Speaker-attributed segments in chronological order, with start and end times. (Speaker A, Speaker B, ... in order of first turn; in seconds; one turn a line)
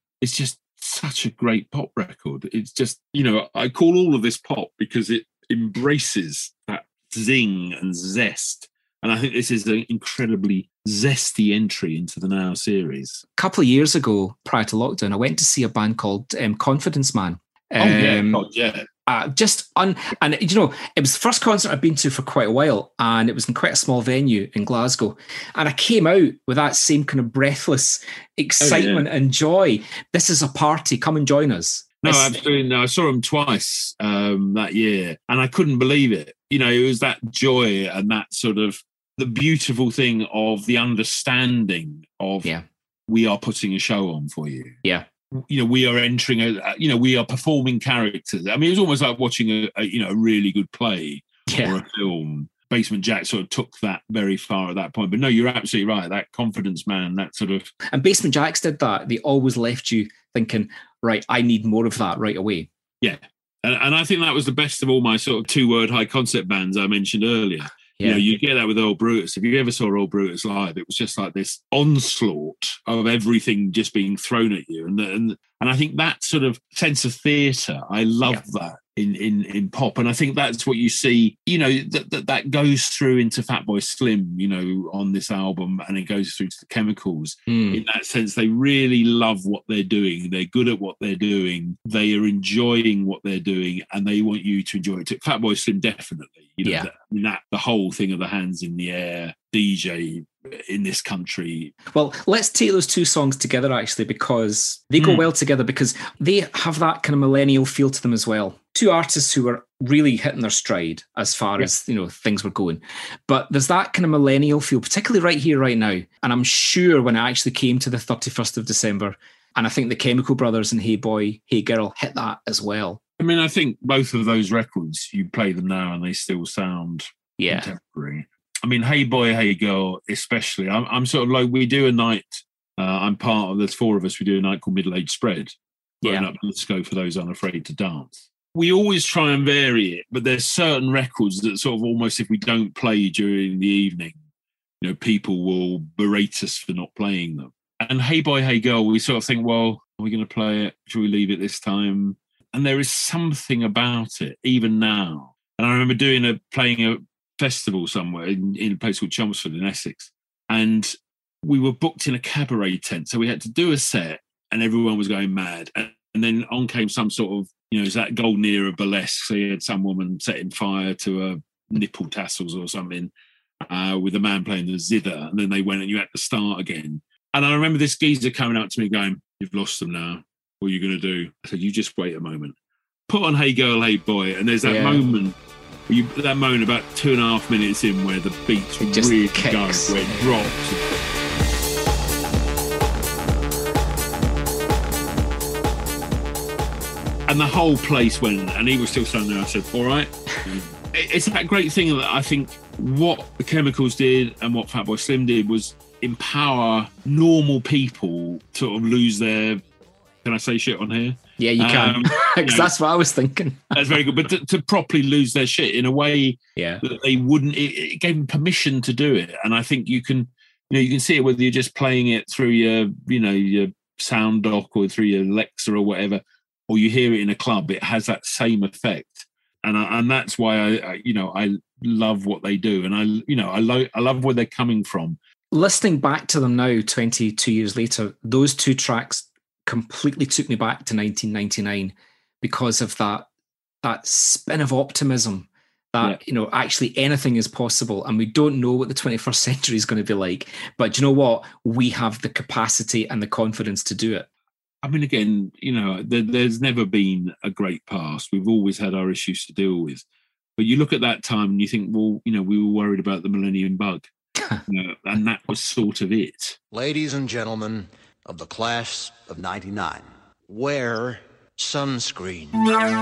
Speaker A: 0.2-13.2
Speaker B: 13.4-18.4
Speaker A: 17.8-18.9
Speaker B: 19.1-32.4
Speaker A: 28.6-29.1
Speaker A: 32.0-42.5
Speaker A: 43.1-44.8
Speaker A: 45.3-57.7
Speaker B: 51.5-51.8
Speaker B: 57.9-62.7
Speaker A: 63.0-101.8
Speaker B: 68.0-68.2
Speaker B: 87.5-87.8
Speaker B: 96.6-96.9
Speaker B: 101.9-123.0
Speaker A: 105.0-105.2
Speaker A: 123.2-144.2
Speaker B: 127.4-127.7
Speaker A: 144.8-160.9
Speaker A: 161.4-173.1
Speaker A: 173.7-182.6
Speaker A: 183.1-185.4
Speaker B: 184.6-185.2
Speaker A: 185.9-190.8
Speaker B: 188.8-190.4
Speaker A: 197.3-209.6
Speaker A: 210.2-212.7
Speaker B: 211.4-213.8
Speaker A: 213.7-235.2
Speaker B: 216.6-216.8
Speaker B: 235.5-243.3
Speaker B: 243.8-254.3
Speaker A: 254.8-260.0
Speaker A: 260.6-264.1
Speaker A: 264.7-266.6
Speaker C: 266.7-272.6